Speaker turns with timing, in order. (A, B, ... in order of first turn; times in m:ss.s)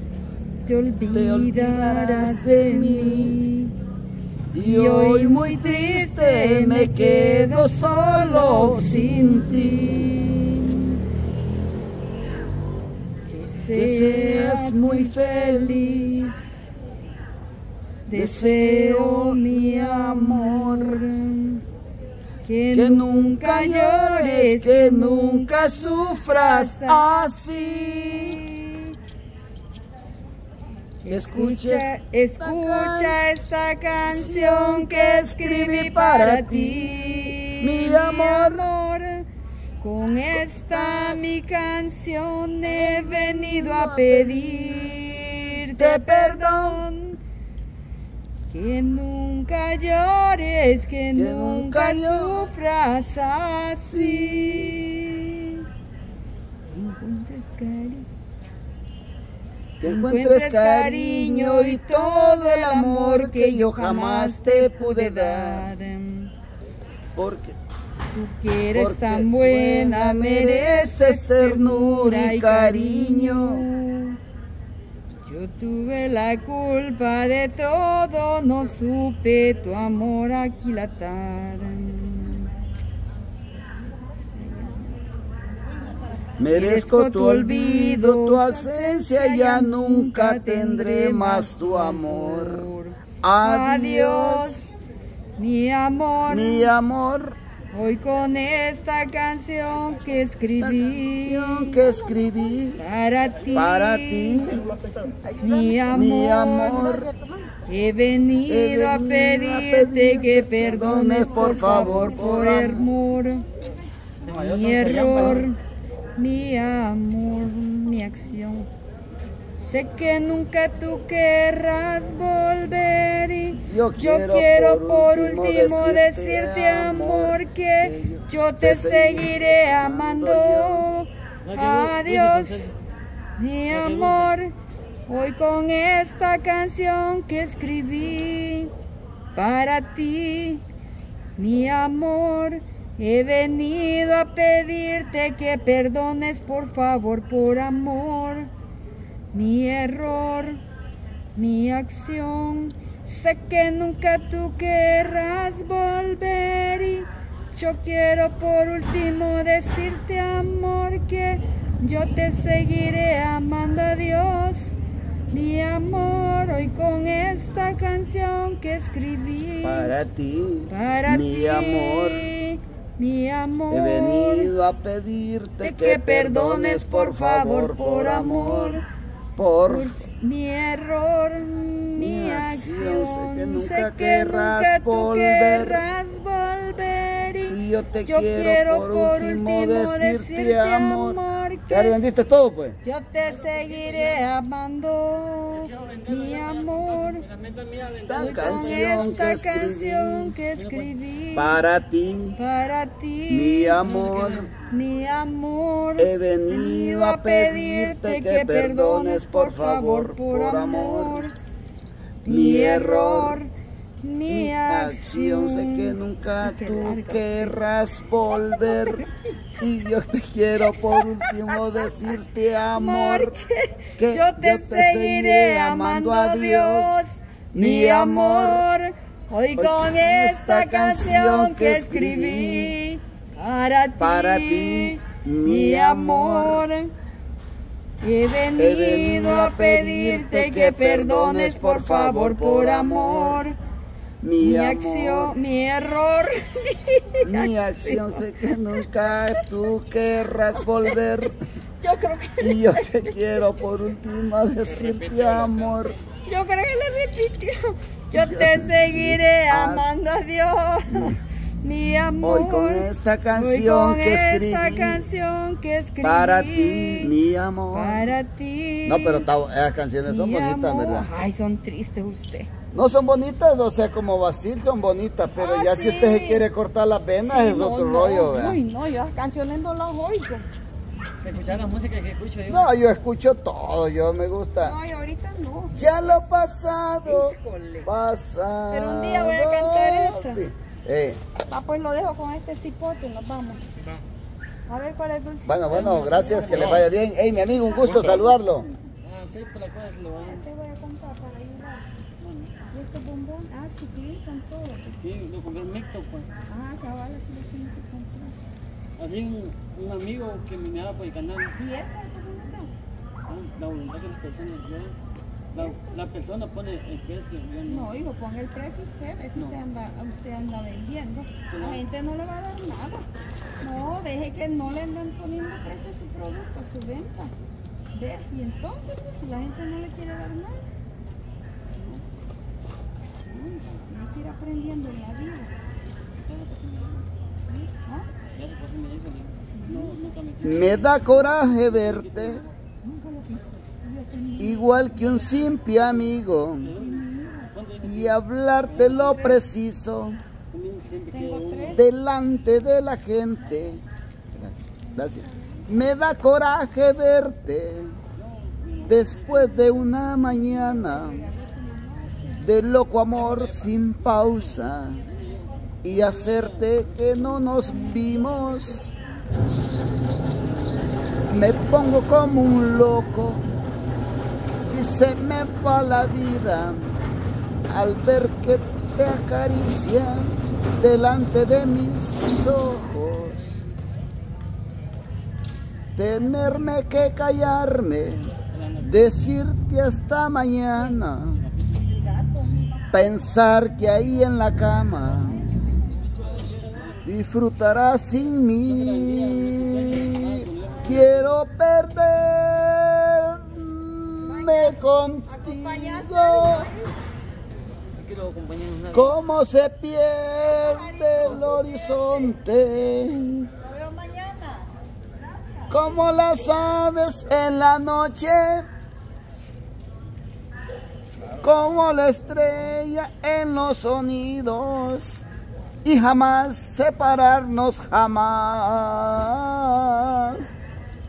0:00.6-0:03.7 A
0:01.1-0:03.4 B
0:04.5-0:10.1 B
0:04.6-0:11.0 A
0:13.3-0:16.5 A
0:13.7-0:16.3 B
0:18.1-0:21.6 A
0:18.1-0:21.0 B
0:22.4-0:29.0 A
0:22.7-0:28.4 B
0:31.0-0:39.3 A
0:31.1-0:33.5 B
0:34.1-0:38.6 B
0:39.8-0:47.2 A
0:40.3-0:41.2 B
0:42.6-0:45.2 B
0:45.7-0:46.8 B
0:48.5-0:55.6 A
0:51.1-0:52.5 B
0:53.8-0:54.8 B
0:56.7-0:58.1 A
0:59.8-1:05.7 B
0:59.8-1:06.3 A
1:07.2-1:07.6 B
1:08.1-1:14.2 A
1:08.7-1:13.6 B
1:15.2-1:22.5 A
1:26.4-1:32.6 B
1:26.5-1:34.7 A
1:33.2-1:34.7 B
1:35.4-1:36.7 A
1:36.3-1:37.4 B
1:37.7-1:44.6 A
1:40.6-1:42.8 B
1:43.5-1:44.7 B
1:45.3-1:53.5 A
1:45.9-1:47.1 B
1:48.5-1:52.8 B
1:54.2-1:55.4 C
1:54.3-1:55.6 A
1:56.2-1:58.7 A
1:59.6-2:12.8 A
2:03.6-2:10.9 B
2:11.5-2:12.7 C
2:13.4-2:14.5 A
2:15.1-2:18.7 A
2:19.3-2:20.6 A
2:21.4-2:28.5 A
2:29.3-2:30.6 A
2:31.3-2:44.8 A
2:45.3-2:49.9 A
2:49.6-2:52.3 B
2:50.7-2:54.5 A
2:53.7-2:58.8 B
2:55.6-2:58.8 A
2:59.3-2:59.9 B
2:59.6-3:12.0 A
3:02.0-3:05.8 B
3:07.5-3:11.2 B
3:11.7-3:12.8 B
3:12.8-3:17.3 A
3:15.7-3:18.9 C
3:18.1-3:20.4 B
3:18.1-3:21.6 A
3:21.3-3:22.4 B
3:22.4-3:31.3 A
3:23.3-3:24.5 B
3:26.0-3:31.3 B
3:32.2-3:33.4 B
3:32.2-3:37.7 A
3:34.3-3:39.0 B
3:38.3-3:39.1 A
3:39.6-3:43.3 B
3:40.6-3:41.9 A
3:42.7-3:56.9 A
3:44.0-3:47.0 B
3:47.5-3:48.6 B
3:49.6-3:52.8 B
3:54.0-3:56.6 B
3:58.0-4:03.6 A
3:58.6-4:03.4 B
4:04.2-4:05.3 B
4:04.4-4:08.8 A
4:07.2-4:11.4 B
4:10.6-4:11.0 A
4:11.8-4:13.4 A
4:12.4-4:16.0 B
4:16.2-4:27.1 A
4:18.1-4:19.8 B
4:20.9-4:21.2 B
4:22.2-4:25.0 B
4:26.0-4:28.2 B
4:27.7-4:29.3 A
4:28.8-4:31.1 B
4:30.0-4:32.5 A
4:32.7-4:38.6 B
4:35.4-4:36.4 A
4:37.2-4:40.5 A
4:41.2-4:42.6 C
4:42.4-4:44.8 B
4:44.6-4:46.2 A
4:45.7-4:51.2 B
4:47.0-4:47.9 A
4:48.7-4:50.4 A
4:51.5-4:53.6 A
4:54.7-4:56.9 A
4:55.4-4:58.7 B
4:55.7-4:56.8 C
4:57.6-4:58.3 A
4:59.0-5:00.4 C
5:00.2-5:01.8 A
5:02.2-5:02.5 C
5:02.7-5:05.0 A
5:05.0-5:06.3 C
5:06.4-5:08.4 A
5:09.0-5:11.5 C
5:11.5-5:12.8 A
5:13.3-5:15.0 C
5:15.5-5:16.0 A
5:15.5-5:18.0 C
5:17.7-5:23.1 A
5:21.5-5:21.8 C
5:23.6-5:27.3 A
5:27.9-5:30.6 A
5:33.2-5:35.5 A
5:36.2-5:37.1 C
5:37.6-5:38.1 A
5:38.4-5:40.8 C
5:39.5-5:40.0 A
5:40.4-5:42.4 B
5:40.5-5:41.5 A
5:41.7-5:42.5 C
5:42.8-5:45.4 A
5:44.4-5:46.8 B
5:46.7-5:48.0 C
5:46.8-5:47.5 A
5:47.8-5:50.2 B
5:50.5-5:51.8 C
5:51.1-5:51.8 A
5:51.7-5:58.0 B
5:58.4-5:59.2 C
5:58.8-6:01.3 B
5:59.6-6:02.4 A
6:02.4-6:05.0 B
6:05.8-6:08.9 B
6:07.4-6:08.8 A
6:11.3-6:13.4 B
6:14.7-6:17.0 B
6:17.7-6:23.6 B
6:26.0-6:31.4 B
6:31.9-6:32.8 A
6:32.9-6:35.5 B
6:36.1-6:37.0 C
6:37.0-6:46.7 B
6:38.7-6:41.0 C
6:44.2-6:47.0 A
6:48.0-6:49.1 C
6:48.9-6:53.5 B
6:50.4-6:52.3 A
6:53.6-6:54.7 A
6:55.4-6:55.8 A
6:55.7-6:58.6 B
7:01.4-7:05.2 B
7:05.8-7:10.4 B